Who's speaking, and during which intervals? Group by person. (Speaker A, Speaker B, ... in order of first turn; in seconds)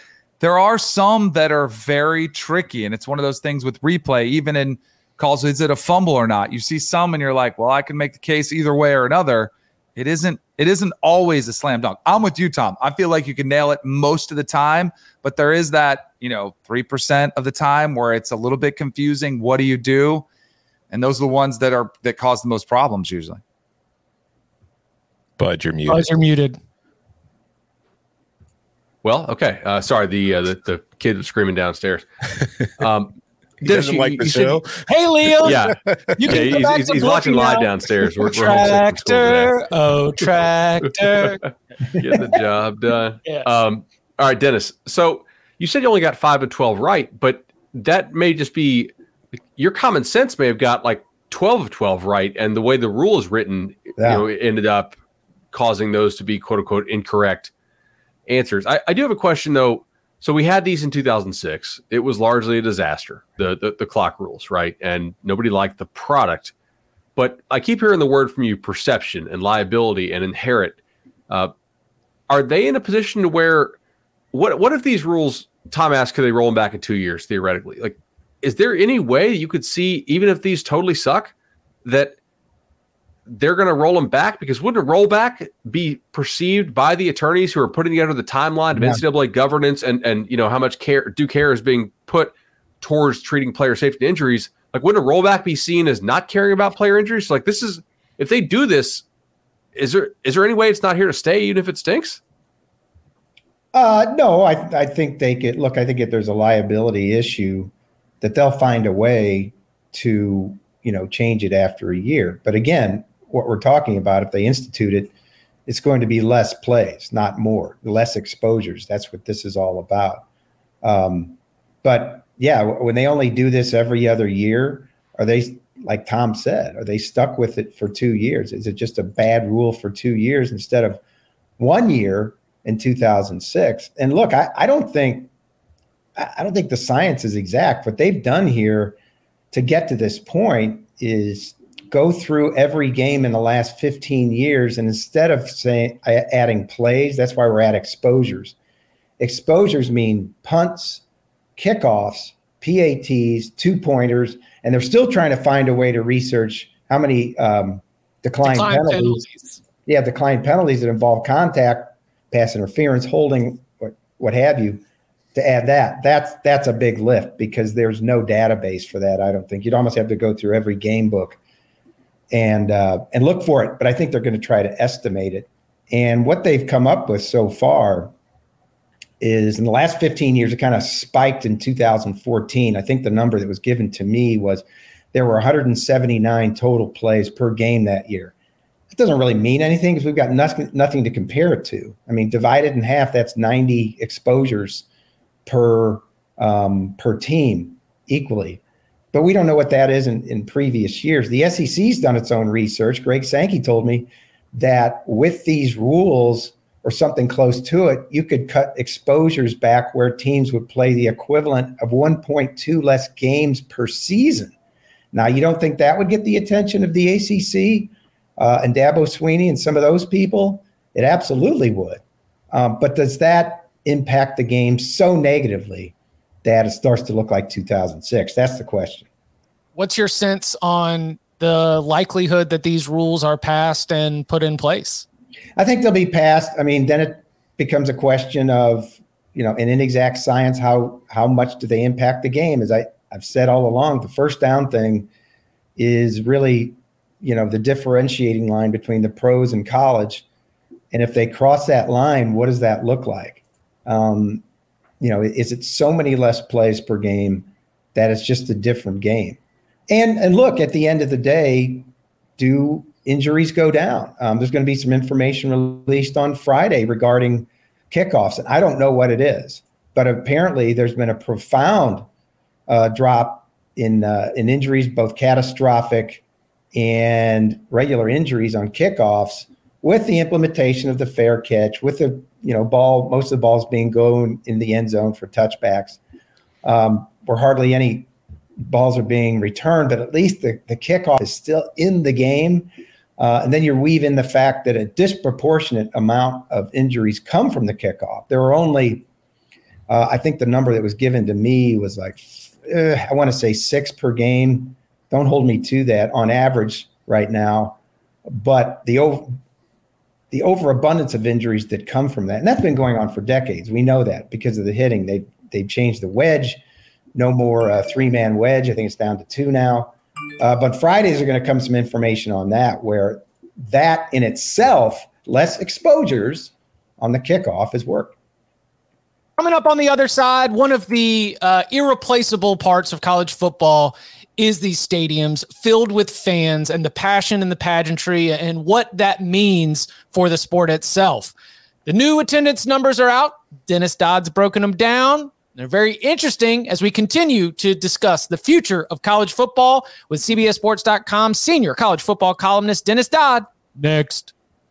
Speaker A: 0.4-20.2, 20.9-23.4
Speaker B: 25.4-26.1, 33.6-36.4
Speaker C: 25.9-26.6, 34.9-35.6, 36.2-37.7, 38.2-41.4, 158.4-159.6, 229.8-235.0, 329.4-341.3, 341.9-354.3
Speaker D: 29.0-32.1, 32.8-34.6, 35.4-39.6, 41.9-48.9, 49.5-55.0, 55.5-57.5, 58.3-66.5, 67.2-70.8, 72.3-73.8, 74.3-81.3, 81.8-82.2, 83.3-99.0, 99.7-102.2
Speaker E: 54.0-54.2, 88.7-89.0, 103.7-115.1, 115.7-120.2, 120.8-131.0, 131.6-135.3, 136.2-138.9, 139.5-148.5, 149.2-151.0, 151.6-159.2, 159.8-164.8, 165.3-171.4, 172.3-178.1, 179.2-188.3, 188.9-194.8, 195.4-198.6, 199.1-214.5, 215.1-229.1, 235.6-245.1, 245.8-250.2, 250.9-254.4, 255.0-259.4, 259.9-272.1, 272.7-276.2, 276.7-286.0, 286.6-288.1, 288.6-299.0, 299.9-309.4, 310.3-316.6, 317.1-328.1